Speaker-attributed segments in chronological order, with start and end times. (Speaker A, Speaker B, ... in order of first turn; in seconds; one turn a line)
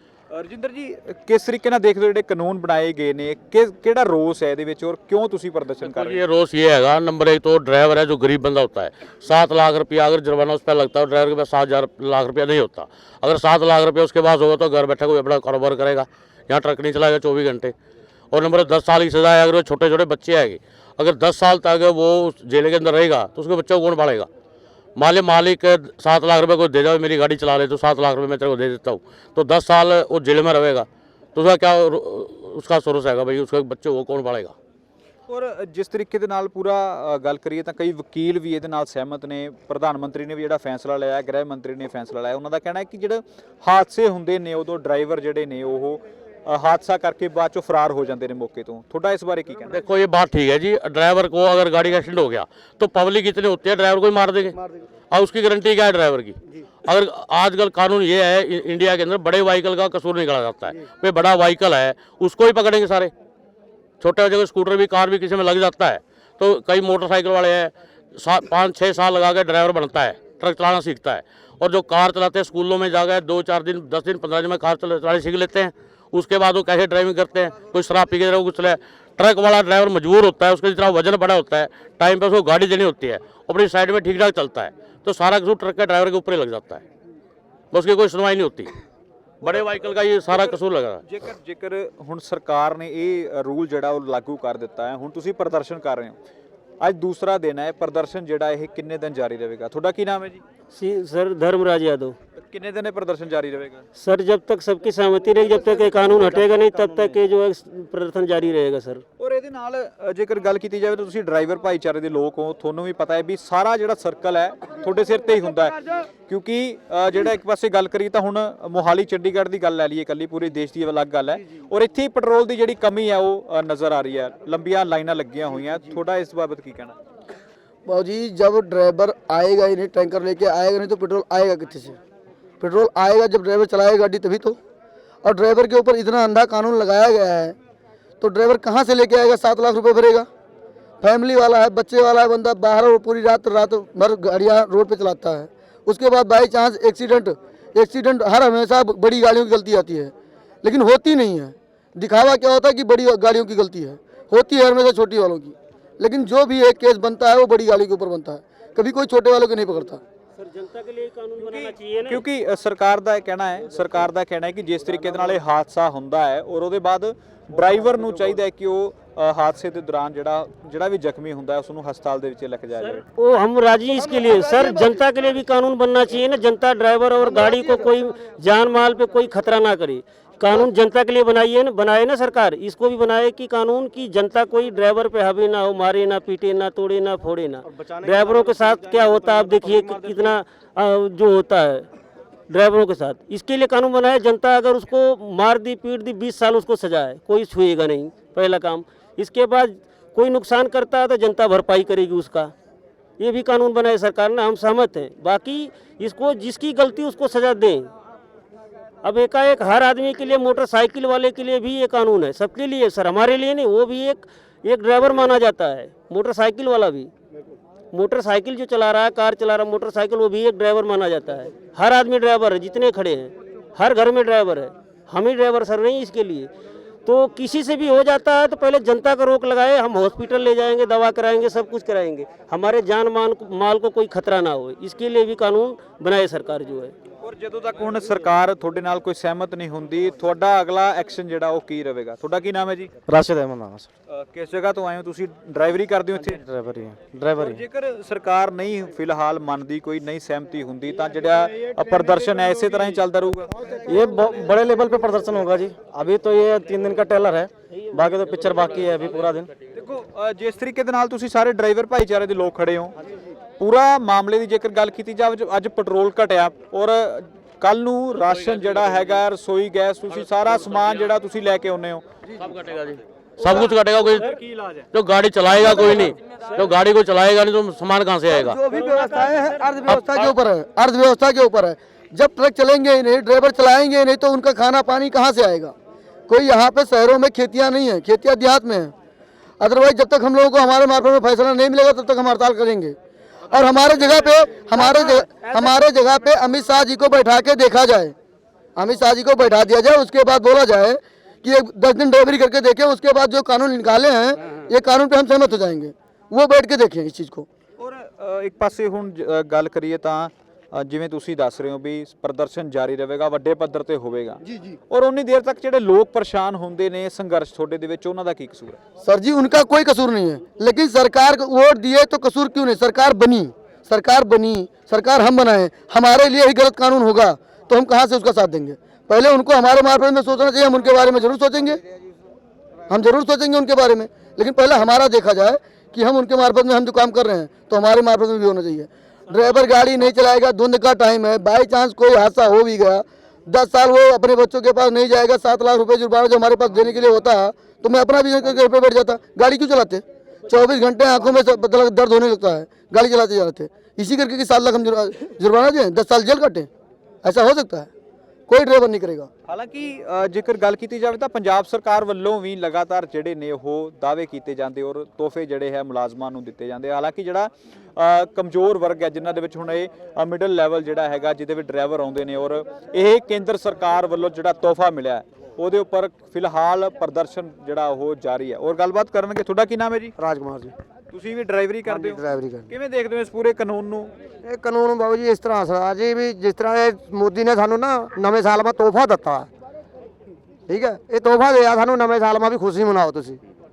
Speaker A: 0.3-6.3
Speaker B: 5.9-17.7
Speaker B: 18.3-24.3
Speaker B: 24.9-34.5
Speaker A: 35.3-49.8
Speaker B: 49.7-54.6
Speaker B: 55.1-63.1
Speaker B: 64.0-86.8
Speaker B: 87.7-88.7
Speaker B: 89.4-91.0
Speaker A: 89.5-96.2
Speaker A: 96.8-100.4
Speaker C: 100.7-102.2
Speaker A: 102.4-103.8
Speaker C: 104.0-109.0
Speaker A: 109.2-127.0
Speaker D: 127.9-132.0
Speaker D: 132.6-134.6
Speaker D: 135.2-137.6
Speaker D: 138.2-140.3
Speaker D: 141.0-150.1
Speaker D: 150.6-160.0
Speaker C: 160.4-162.2
Speaker A: 161.4-173.0
Speaker C: 173.1-191.9
Speaker C: 192.5-202.5
Speaker C: 203.2-207.9
Speaker C: 209.0-217.1
Speaker C: 217.9-226.5
Speaker C: 227.0-236.9
Speaker A: 237.2-242.9
Speaker E: 243.1-243.9
Speaker A: 244.1-246.4
Speaker E: 246.5-247.6
Speaker A: 247.4-253.5
Speaker E: 253.8-259.5
Speaker A: 259.7-262.9
Speaker A: 263.6-272.0
Speaker B: 272.4-274.2
Speaker A: 274.2-274.9
Speaker B: 274.9-278.6
Speaker D: 278.7-285.7
Speaker D: 286.3-288.9
Speaker D: 289.6-292.9
Speaker D: 293.5-298.1
Speaker D: 298.8-307.5
Speaker A: 307.8-318.8
Speaker D: 319.0-331.8
Speaker D: 332.9-356.7
Speaker D: 357.2-357.9
Speaker D: 358.5-359.3
Speaker A: 359.4-380.1
Speaker F: 380.2-380.7
Speaker A: 381.1-384.1
Speaker F: 381.9-382.7
Speaker F: 384.4-389.5
Speaker F: 390.7-393.4